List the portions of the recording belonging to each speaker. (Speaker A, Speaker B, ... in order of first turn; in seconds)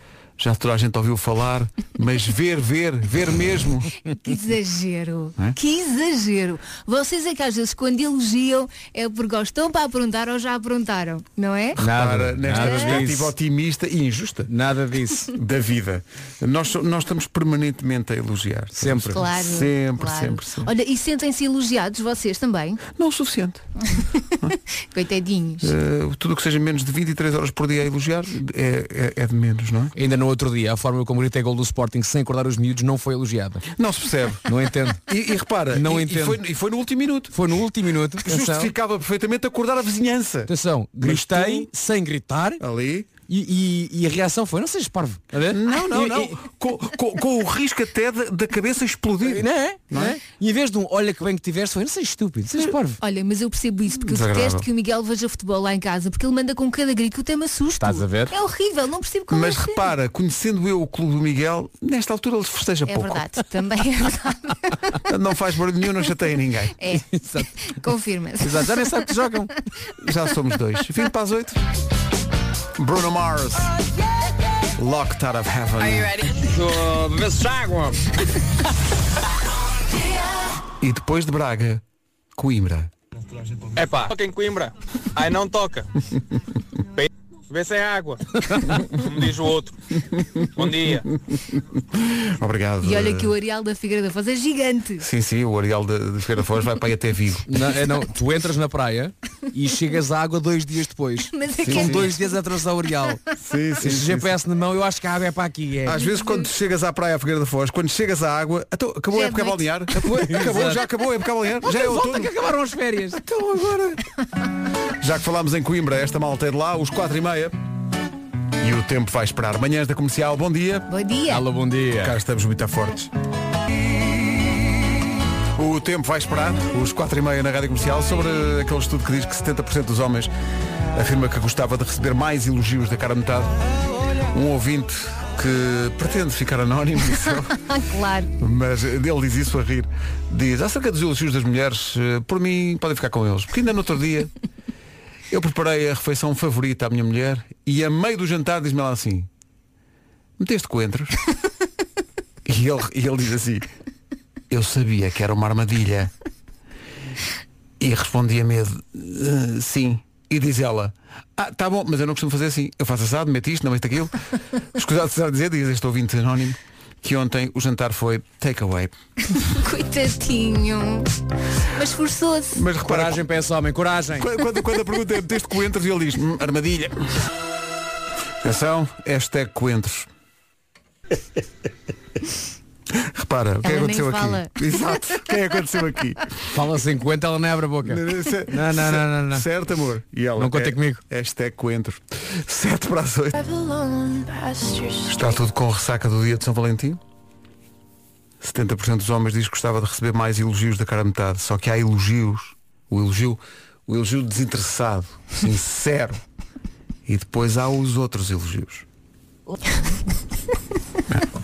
Speaker A: 0.4-3.9, 11.8-14.5, 15.3-20.7, 22.9-23.6, 25.6-29.9, 33.7-34.4, 35.1-37.4, 38.2-41.7, 42.6-43.1, 45.5-50.2, 54.0-54.7, 59.3-63.2, 65.0-66.8, 70.0-71.6, 72.8-73.7, 74.8-76.2, 80.8-81.8, 82.3-82.9, 91.5-93.3, 95.0-97.5, 101.6-102.1, 103.4-104.3, 105.8-112.3, 113.3-113.9, 115.0-117.5, 118.6-120.9, 122.0-123.1, 125.5-130.3, 130.9-133.5, 134.3-137.5, 138.4-144.3, 145.3-149.3, 150.4-151.1, 152.4-153.7, 154.5-156.1, 157.8-164.1, 164.7-168.9, 172.5-173.2, 174.2-177.0, 178.4-180.1, 182.9-186.2, 187.8-193.4, 195.0-197.0, 198.4-206.2, 207.1-208.8
Speaker B: 4.1-11.8, 12.5-13.0, 19.1-22.8, 23.9-25.7, 53.0-59.9, 62.9-64.7, 66.8-69.1, 92.8-95.0, 101.3-102.4, 106.0-106.5, 109.1-109.7, 120.9-121.5, 137.5-138.3, 169.3-171.1, 171.7-172.6, 183.6-184.6
Speaker C: 11.8-13.3, 14.5-15.3, 18.8-19.2, 29.9-33.6, 34.5-35.0, 35.7-36.4, 37.3-38.7, 40.5-42.6, 43.3-46.4, 49.2-53.0, 57.8-58.3, 67.1-67.5, 68.4-69.5, 88.5-88.8, 97.5-103.2, 103.8-106.0, 109.9-110.8, 111.6-113.7, 121.3-122.2, 172.8-174.3, 186.5-189.4, 190.4-191.0
Speaker D: 75.8-78.0, 83.7-85.9, 87.0-88.2, 88.9-89.7, 90.5-91.0